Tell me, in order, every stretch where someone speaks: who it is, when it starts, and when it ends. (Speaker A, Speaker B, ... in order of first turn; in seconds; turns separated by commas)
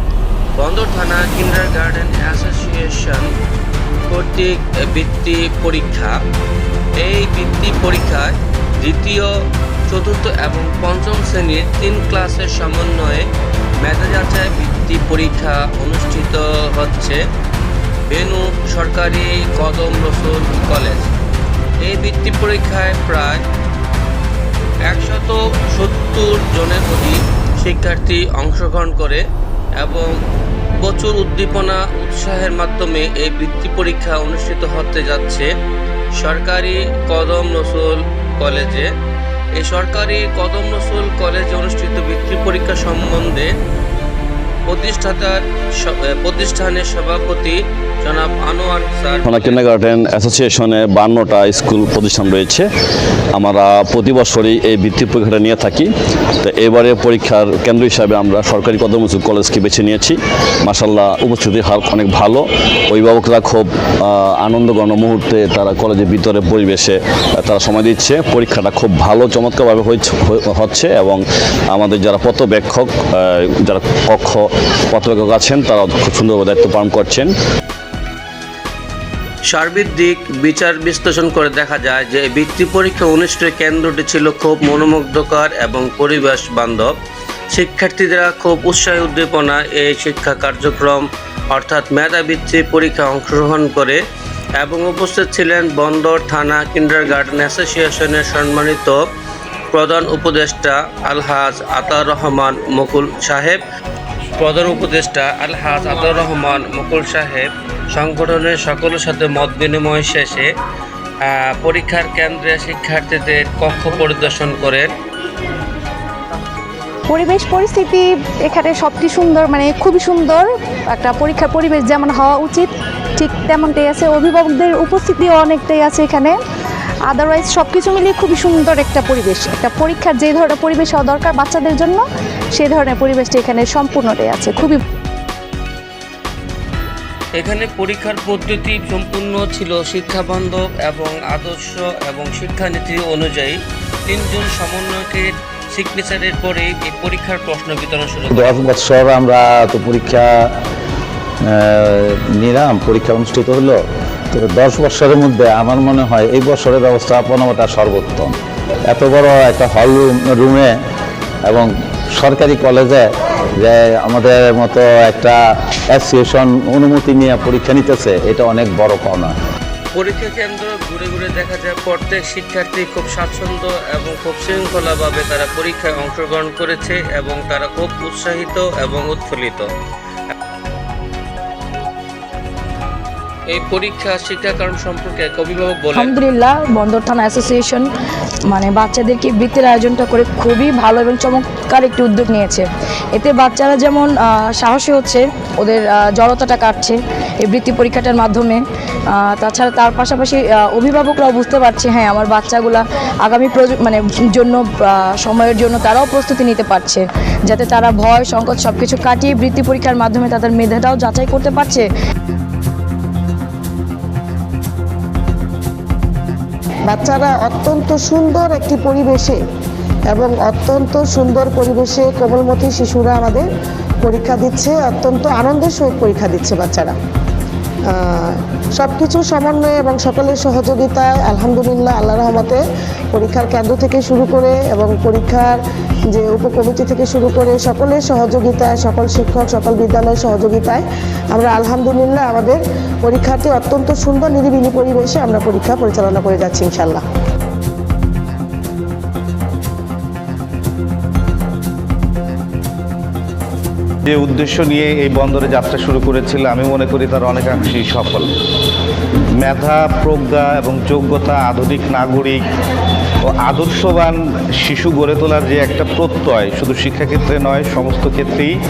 Speaker A: 0.6-3.3, Speaker A: 4.1-6.2, Speaker A: 7.0-9.3, Speaker A: 9.9-13.2, Speaker A: 13.8-17.2, Speaker A: 18.1-21.1, Speaker A: 21.8-23.4, Speaker A: 24.9-29.2, Speaker A: 29.8-30.1, Speaker A: 30.8-35.5, Speaker A: 36.2-38.9, Speaker A: 39.6-43.5, Speaker A: 44.7-49.6, Speaker B: 49.2-52.6, Speaker B: 53.3-55.9, Speaker B: 56.4-77.3, Speaker A: 79.5-86.9, Speaker A: 87.5-94.0, Speaker A: 94.6-99.0, Speaker A: 99.7-103.6, Speaker A: 104.3-110.5, Speaker A: 111.2-114.9, Speaker C: 117.1-126.4, Speaker C: 127.0-134.8, Speaker A: 137.3-148.6, Speaker D: 148.3-150.3, Speaker D: 151.5-153.8, Speaker D: 154.3-158.3, Speaker D: 158.9-160.7, Speaker D: 161.5-163.1, Speaker D: 163.6-165.4, Speaker D: 165.9-169.3, Speaker A: 169.9-179.7, Speaker A: 183.5-186.1, Speaker E: 185.9-187.8, Speaker E: 188.5-211.9, Speaker F: 216.9-219.4, Speaker F: 220.1-223.4, Speaker F: 224.0-226.9, Speaker F: 227.9-232.6, Speaker F: 233.1-235.6, Speaker F: 236.1-247.0, Speaker G: 254.1-258.3, Speaker G: 259.4-262.4, Speaker G: 263.2-268.5